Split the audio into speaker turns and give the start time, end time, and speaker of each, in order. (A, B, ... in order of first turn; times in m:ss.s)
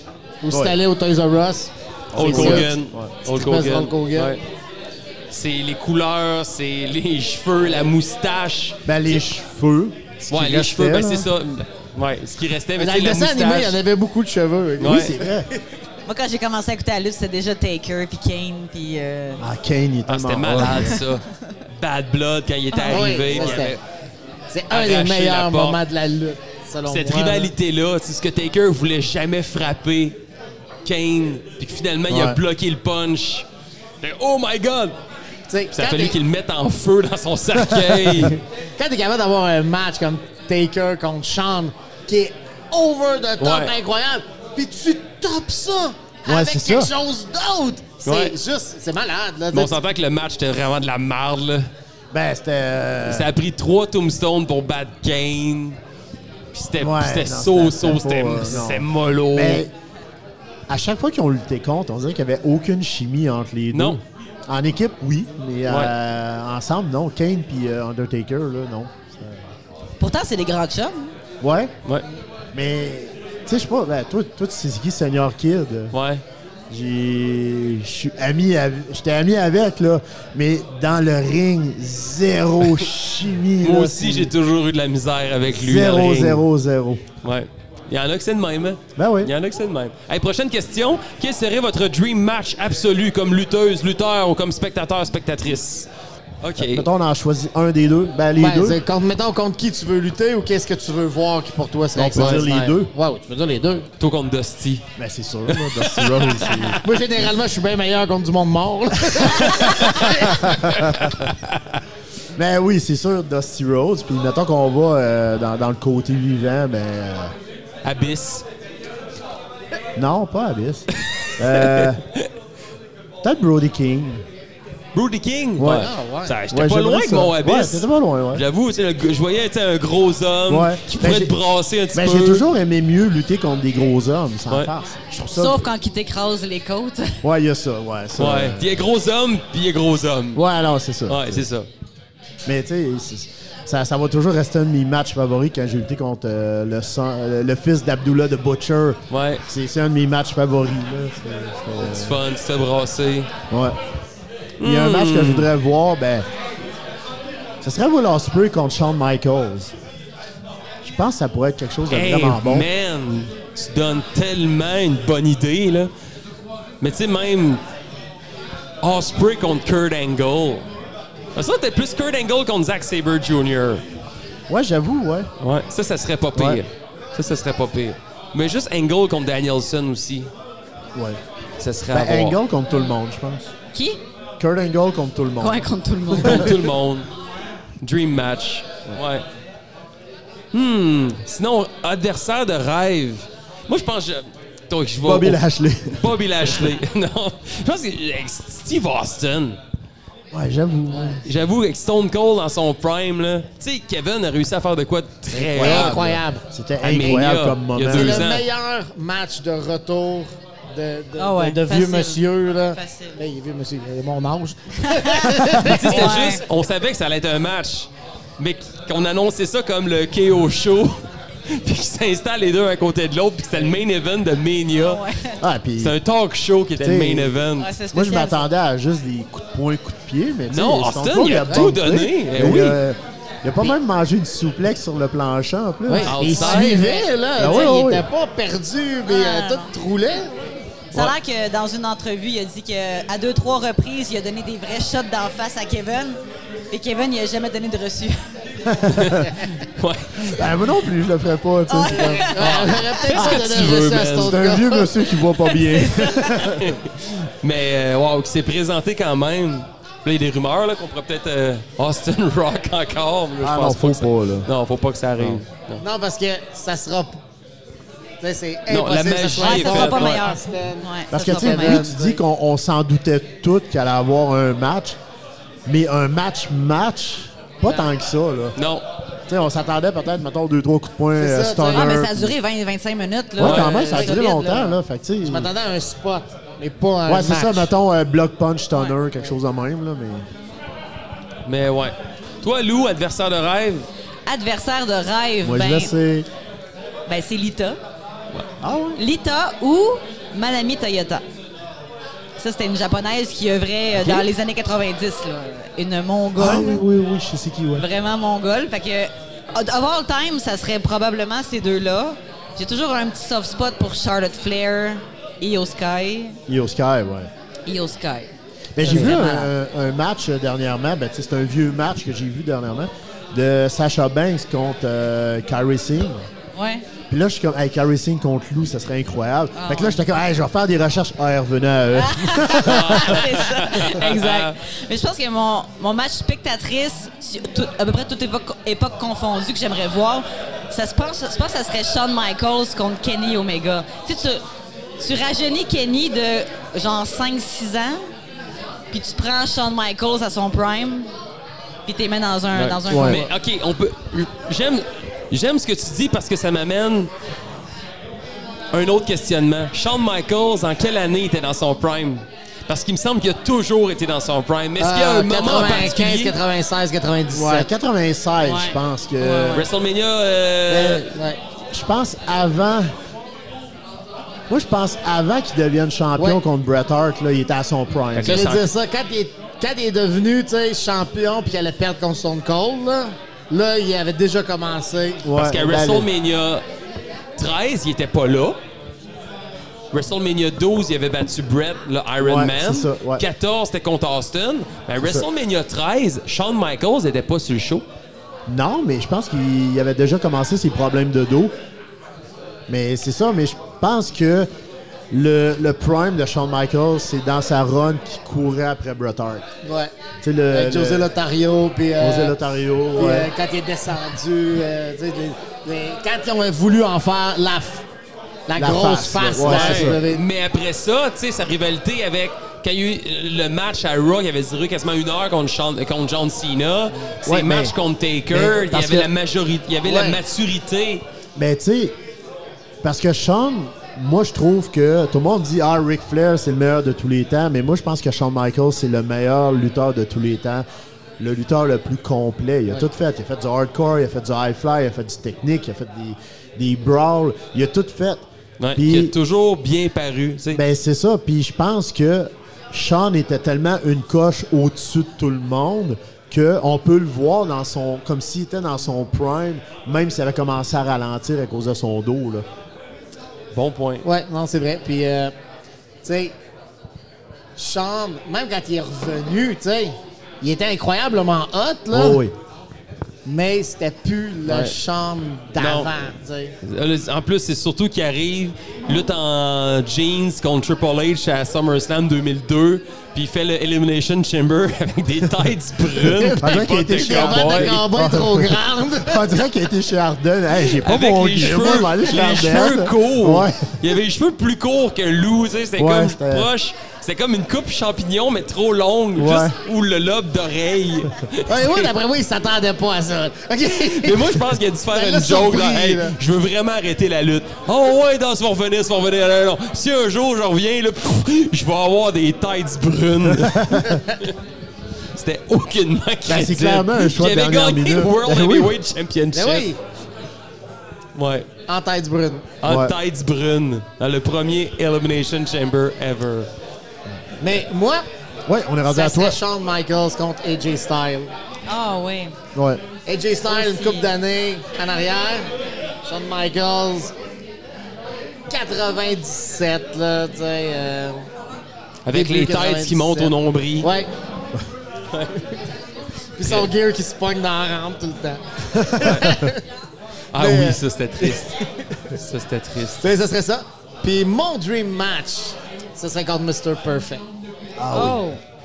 0:00.4-0:02.7 A
0:00.5-0:00.8 B
0:02.1-0:03.1 B
0:02.1-0:04.4 C
0:03.2-0:04.4 A
0:05.3-0:09.2 C
0:08.9-0:11.3 B
0:10.3-0:13.8 C
0:12.8-0:15.6 A
0:14.8-0:15.1 C
0:14.8-0:15.5 B
0:16.1-0:19.4 D
0:19.4-0:21.0 B
0:20.1-0:23.8 C
0:20.6-0:21.0 D
0:22.7-0:23.2 D
0:22.9-0:23.8 A
0:24.5-0:27.5 A
0:24.7-0:25.8 C
0:26.8-0:30.2 C
0:30.8-0:33.4 C
0:32.1-0:32.4 B
0:34.0-0:35.0 C
0:35.5-0:36.2 A
0:35.7-0:38.4 C
0:37.6-0:38.3 B
0:38.8-0:49.8 A
0:43.4-0:43.7 C
0:46.3-0:46.9 B
0:48.0-0:48.4 C
0:49.5-0:51.7 C
0:52.1-0:53.3 B
0:53.0-0:55.8 C
0:56.5-0:59.7 C
0:56.8-0:59.7 B
1:00.7-1:09.5 B
1:03.7-1:04.0 C
1:05.7-1:05.9 C
1:10.0-1:11.1 D
1:11.4-1:11.7 B
1:12.5-1:15.9 B
1:15.9-1:16.2 C
1:16.7-1:24.3 B
1:23.6-1:26.4 C
1:25.5-1:27.0 B
1:27.2-1:35.9 C
1:29.0-1:29.3 B
1:36.4-1:36.9 C
1:36.6-1:38.8 B
1:38.4-1:43.9 A
1:42.0-1:42.9 B
1:42.2-1:42.4 C
1:44.0-1:44.9 C
1:45.0-1:46.8 B
1:45.5-1:46.8 C
1:46.8-1:50.4 A
1:49.2-1:51.1 B
1:50.9-1:51.6 C
1:52.4-1:57.3 B
1:57.8-1:58.4 C
2:00.0-2:02.0 B
2:01.0-2:02.3 C
2:03.2-2:04.2 B
2:04.9-2:12.4 C
2:05.6-2:05.9 B
2:05.7-2:06.4 A
2:06.5-2:08.4 B
2:10.5-2:11.4 B
2:11.9-2:15.7 B
2:15.3-2:17.2 D
2:17.2-2:18.8 B
2:18.2-2:20.4 C
2:20.4-2:21.4 B
2:21.1-2:21.7 C
2:22.4-2:32.2 B
2:29.1-2:29.4 C
2:31.8-2:33.3 C
2:33.5-2:33.8 B
2:34.6-2:35.5 C
2:34.6-2:36.3 B
2:37.6-2:39.7 B
2:40.8-2:42.7 B
2:41.9-2:45.9 C
2:46.8-2:47.6 C
2:48.8-2:50.7 C
2:51.4-2:53.8 C
2:54.5-2:55.3 B
2:55.4-3:00.3 C
2:56.3-2:56.6 B
3:00.9-3:01.2 B
3:01.6-3:02.4 C
3:01.9-3:03.5 B
3:03.7-3:04.0 D
3:04.4-3:06.4 B
3:05.4-3:06.6 D
3:06.2-3:07.1 C
3:07.8-3:09.3 C
3:10.5-3:19.6 C
3:15.0-3:16.5 B
3:20.3-3:21.3 B
3:21.2-3:26.2 C
3:25.4-3:26.4 A
3:25.5-3:28.3 B
3:26.8-3:28.4 C
3:27.9-3:36.2 A
3:31.2-3:33.2 D
3:34.9-3:36.4 D
3:35.6-3:45.0 C
3:44.8-3:45.4 D
3:45.4-3:46.0 B
3:45.8-3:47.7 C
3:46.8-3:47.4 B
3:47.6-3:48.5 D
3:47.9-3:56.3 B
3:50.5-3:52.8 C
3:55.9-4:00.5 A
3:56.0-3:56.8 C
3:56.2-3:57.7 D
3:57.4-3:58.1 B
3:59.1-3:59.7 D
4:00.9-4:06.2 D
4:06.7-4:08.2 D
4:08.6-4:09.3 B
4:08.9-4:10.6 C
4:10.3-4:12.6 B
4:11.7-4:13.4 D
4:11.9-4:15.0 A
4:12.4-4:14.4 C
4:14.1-4:16.8 B
4:15.4-4:16.5 D
4:16.4-4:25.8 C
4:23.4-4:24.5 B
4:25.2-4:25.4 B
4:25.8-4:27.2 A
4:28.2-4:32.2 A
4:28.7-4:30.2 C
4:29.4-4:31.9 D
4:31.1-4:35.0 B
4:35.7-4:38.6 B
4:37.6-4:37.9 A
4:38.6-4:38.8 C
4:39.3-4:42.3 B
4:41.2-4:41.9 A
4:41.7-4:44.8 D
4:43.4-4:45.5 B
4:43.4-4:43.8 C
4:43.9-4:44.2 A
4:45.2-4:47.7 A
4:47.1-4:50.2 B
4:51.4-4:53.9 C
4:54.3-4:55.9 D
4:55.4-4:56.3 B
4:57.1-4:57.8 D
4:58.6-4:59.0 B
4:59.0-5:01.2 D
5:02.4-5:06.8 D
5:04.0-5:04.2 C
5:06.4-5:07.9 B
5:07.8-5:16.4 D
5:16.5-5:17.3 B
5:17.7-5:19.5 D
5:18.8-5:26.3 B
5:26.6-5:26.8 D
5:27.1-5:33.3 B
5:29.6-5:30.0 D
5:32.0-5:44.4 D
5:32.6-5:34.5 C
5:45.0-5:48.0 D
5:48.9-5:51.1 D
5:51.9-5:53.3 D
5:52.5-5:57.1 C
5:52.9-5:53.2 B
5:58.7-6:06.4 C
6:04.8-6:07.7 A
6:07.3-6:09.7 B
6:08.4-6:09.7 D
6:09.5-6:11.1 C
6:10.7-6:11.1 B
6:11.1-6:11.4 A
6:11.7-6:12.9 B
6:14.5-6:18.5 B
6:18.1-6:18.6 C
6:18.3-6:25.3 A
6:25.2-6:26.1 B
6:25.4-6:26.6 C
6:27.4-6:28.6 C
6:29.9-6:37.9 C
6:32.2-6:33.2 B
6:35.0-6:35.3 B
6:38.5-6:41.5 B
6:42.7-6:44.5 B
6:45.1-6:49.4 B
6:49.6-6:49.9 A
6:50.2-6:51.1 B
6:50.5-6:52.4 A
6:52.0-6:53.3 B
6:53.0-6:57.8 A
6:58.5-7:00.2 A
6:58.6-7:00.0 B
6:59.4-7:11.0 C
7:07.2-7:07.8 B
7:08.3-7:09.1 B
7:09.8-7:10.2 A
7:11.4-7:11.9 B
7:12.8-7:20.7 B
7:21.2-7:28.2 B
7:28.6-7:30.6 C
7:28.8-7:29.1 B
7:30.5-7:42.4 B
7:43.5-7:44.1 C
7:44.0-7:45.4 A
7:46.0-7:46.4 A
7:47.6-7:52.2 A
7:51.9-7:52.3 B
7:53.2-7:56.6 A
7:54.5-7:54.8 C
7:55.6-7:55.9 C
7:56.6-8:07.9 C
8:06.0-8:09.4 A
8:06.4-8:13.8 B
8:10.8-8:21.9 C
8:15.8-8:16.5 B
8:19.2-8:19.6 B
8:21.5-8:26.1 A
8:23.7-8:34.3 C
8:33.3-8:34.0 B
8:35.1-8:39.7 C
8:36.3-8:38.8 B
8:39.3-8:39.8 A
8:41.1-8:41.5 C
8:41.7-8:42.5 A
8:42.6-8:46.5 C
8:42.6-8:43.0 B
8:47.4-8:48.0 A
8:48.4-8:49.4 B
8:48.9-8:51.3 A
8:51.7-8:52.4 D
8:52.6-8:52.8 B
8:53.1-8:55.5 A
8:53.4-8:54.1 D
8:56.0-8:57.1 A
8:58.5-9:01.2 A
9:02.0-9:03.9 C
9:02.1-9:04.1 A
9:05.1-9:05.4 C
9:06.4-9:09.6 A
9:06.4-9:06.7 C
9:08.7-9:09.3 B
9:09.0-9:09.4 C
9:10.3-9:11.6 C
9:10.4-9:12.0 A
9:12.1-9:13.1 C
9:13.0-9:17.2 A
9:17.8-9:18.2 B
9:17.9-9:18.4 D